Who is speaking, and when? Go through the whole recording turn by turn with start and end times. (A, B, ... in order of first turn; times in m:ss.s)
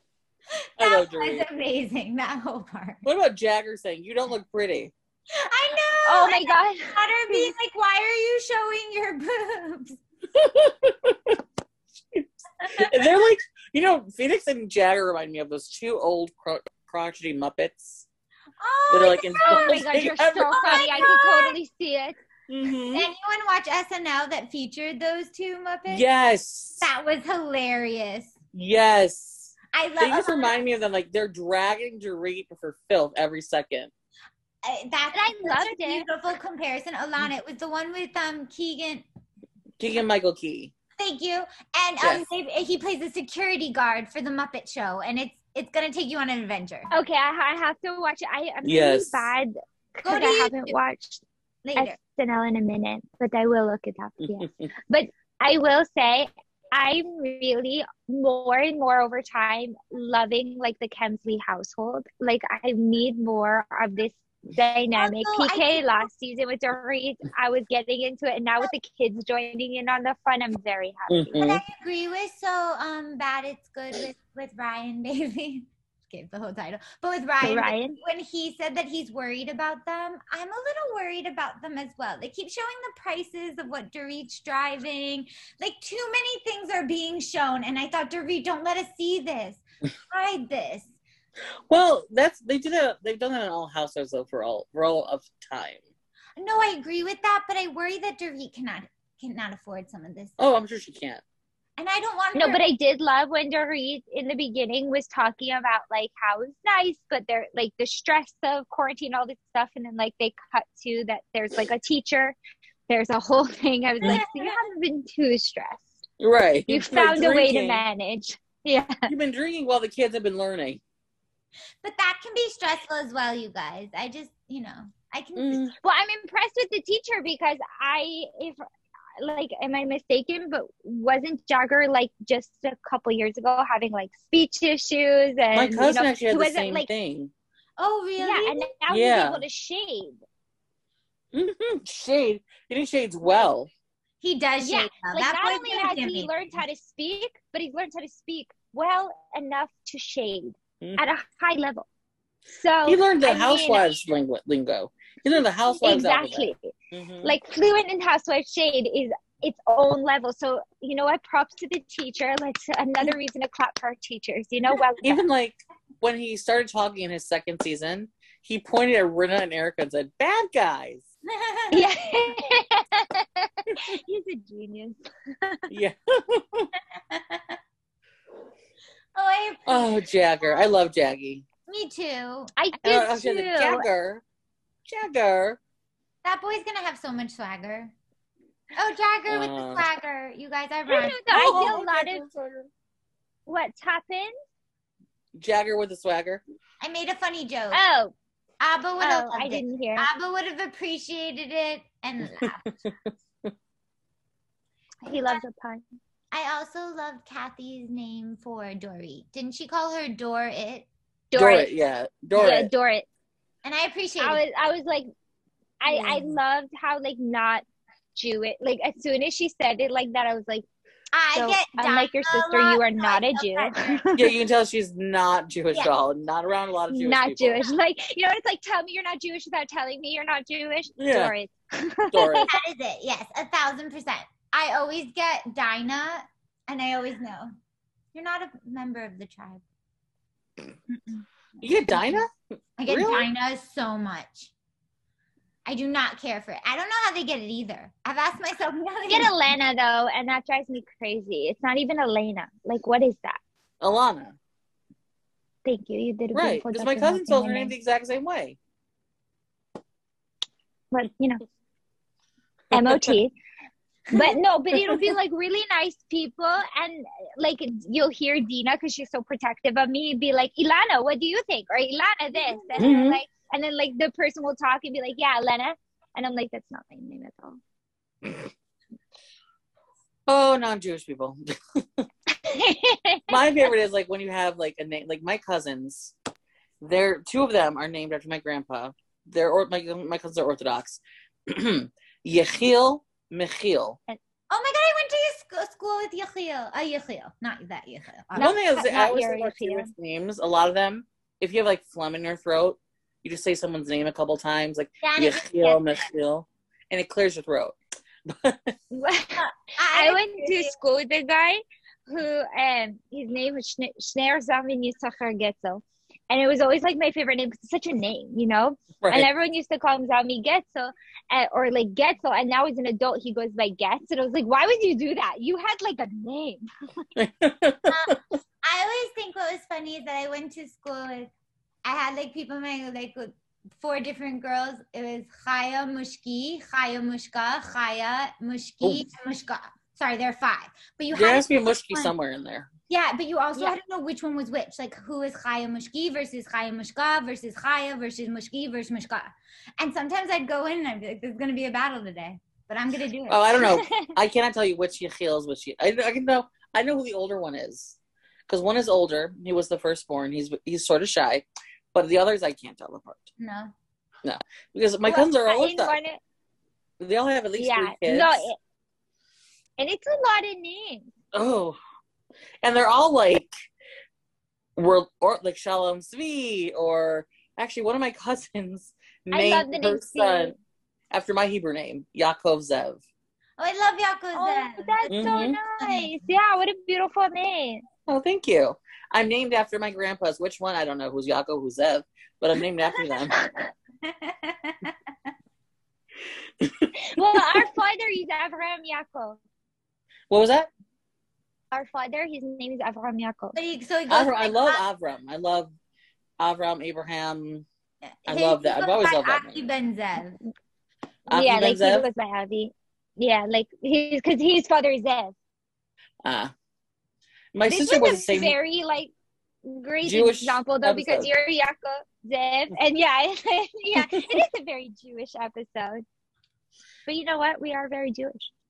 0:00.6-0:03.1 A
0:00.8-0:01.5 B
0:03.0-0:04.9 B
0:05.3-0:10.0 A
0:06.0-0:07.5 C
0:10.3-0:11.4 B
0:12.1-0:18.1 B
0:12.6-0:13.1 A
0:18.6-0:19.9 A
0:18.9-0:20.9 B
0:19.4-0:22.2 C
0:20.4-0:21.6 A
0:22.5-0:23.1 B
0:22.9-0:26.1 A
0:25.9-0:26.9 B
0:26.8-0:28.4 A
0:28.5-0:33.9 B
0:29.7-0:30.6 A
0:34.6-0:39.0 A
0:35.1-0:36.1 C
0:39.8-0:40.7 B
0:41.0-0:46.9 A
0:42.0-0:42.3 B
0:46.9-0:51.2 C
0:48.6-0:49.3 B
0:50.0-0:50.8 A
0:51.6-0:52.0 A
0:51.8-1:11.4 C
0:54.2-0:54.7 B
1:05.0-1:06.1 A
1:11.1-1:11.6 B
1:11.4-1:30.9 A
1:17.4-1:18.0 C
1:31.7-1:35.8 B
1:36.4-1:40.4 A
1:40.4-1:41.2 B
1:41.8-1:42.6 A
1:42.4-1:52.4 C
1:52.9-1:56.0 C
1:54.0-1:54.6 A
1:56.2-1:57.8 B
1:56.7-1:59.1 C
1:59.1-2:00.8 B
2:01.8-2:05.7 A
2:05.4-2:05.7 B
2:05.8-2:08.6 C
2:09.2-2:16.9 C
2:15.5-2:17.3 B
2:17.8-2:18.7 A
2:18.2-2:20.2 C
2:18.9-2:19.4 B
2:21.3-2:23.7 B
2:24.2-2:26.3 A
2:24.6-2:31.9 C
2:32.5-2:33.9 C
2:32.9-2:37.3 B
2:35.8-2:36.7 C
2:37.2-2:45.2 C
2:45.0-2:51.1 B
2:51.3-2:52.6 A
2:51.7-2:55.7 C
2:55.7-2:56.7 B
2:57.1-2:57.6 A
2:59.2-3:00.7 A
2:59.7-3:01.4 B
3:01.7-3:02.5 A
3:02.6-3:03.8 C
3:02.8-3:04.2 B
3:04.9-3:05.6 B
3:06.2-3:07.9 A
3:08.8-3:11.8 A
3:09.3-3:09.9 B
3:10.9-3:12.2 C
3:11.3-3:12.7 B
3:13.5-3:14.3 C
3:15.4-3:16.4 B
3:16.8-3:17.8 A
3:17.7-3:18.1 C
3:18.6-3:22.6 A
3:19.0-3:20.1 C
3:22.2-3:23.5 B
3:25.0-3:25.8 C
3:26.3-3:30.9 A
3:31.3-3:31.7 C
3:31.3-3:32.7 B
3:32.3-3:33.1 C
3:33.6-3:34.4 A
3:34.2-3:35.1 C
3:35.8-3:37.6 C
3:35.9-3:36.3 A
3:38.2-3:40.6 C
3:41.1-3:44.2 A
3:41.3-3:44.2 C
3:44.2-3:47.6 B
3:46.9-3:52.5 C
3:51.0-3:51.3 B
3:52.1-3:52.5 B
3:52.5-3:57.6 A
3:58.1-3:59.6 A
4:00.9-4:01.3 A
4:01.6-4:02.3 B
4:01.9-4:02.2 A
4:02.8-4:04.5 A
4:02.9-4:03.3 B
4:05.7-4:09.3 A
4:09.1-4:13.4 C
4:13.8-4:14.4 B
4:15.6-4:17.7 C
4:16.3-4:18.6 B
4:20.9-4:21.4 C
4:22.7-4:23.2 B
4:22.7-4:23.3 C
4:24.1-4:37.6 C
4:32.5-4:32.8 A
4:32.8-4:33.2 B
4:40.3-4:42.1 B
4:42.4-4:43.7 C
4:43.3-4:46.1 B
4:46.8-4:54.0 B
4:54.5-4:58.5 A
4:58.4-4:59.9 C
4:58.4-5:08.8 B
5:05.0-5:05.8 A
5:08.9-5:26.7 C
5:09.4-5:10.7 A
5:19.0-5:19.3 B
5:27.2-5:28.2 B
5:27.9-5:31.3 A
5:31.8-5:42.1 A
5:41.1-5:42.7 B
5:42.9-5:53.8 A
5:53.3-6:03.3 B
5:53.7-5:54.2 C
6:03.4-6:03.7 A
6:04.2-6:06.0 B
6:05.0-6:06.2 C
6:07.0-6:08.5 B
6:07.6-6:08.6 C
6:09.8-6:11.1 C
6:11.3-6:11.8 B
6:12.6-6:13.5 B
6:14.8-6:20.6 B
6:19.3-6:20.6 C
6:21.1-6:23.0 B
6:23.6-6:26.3 A
6:24.3-6:27.9 C
6:25.1-6:25.6 B
6:28.1-6:33.4 B
6:33.3-6:33.7 C
6:34.0-6:34.9 A
6:36.6-6:36.9 B
6:37.0-6:39.4 C
6:40.3-6:40.7 B
6:41.7-6:43.6 C
6:43.6-6:44.8 A
6:44.1-6:45.7 B
6:46.4-6:47.7 B
6:48.2-6:50.4 A
6:48.3-6:49.7 B
6:51.3-6:52.1 B
6:51.3-6:55.4 C
6:56.2-6:56.5 B
6:57.5-6:58.6 B
6:57.7-6:59.1 C
6:59.6-7:06.0 C
7:00.0-7:01.3 B
7:04.0-7:04.4 B
7:07.1-7:08.5 C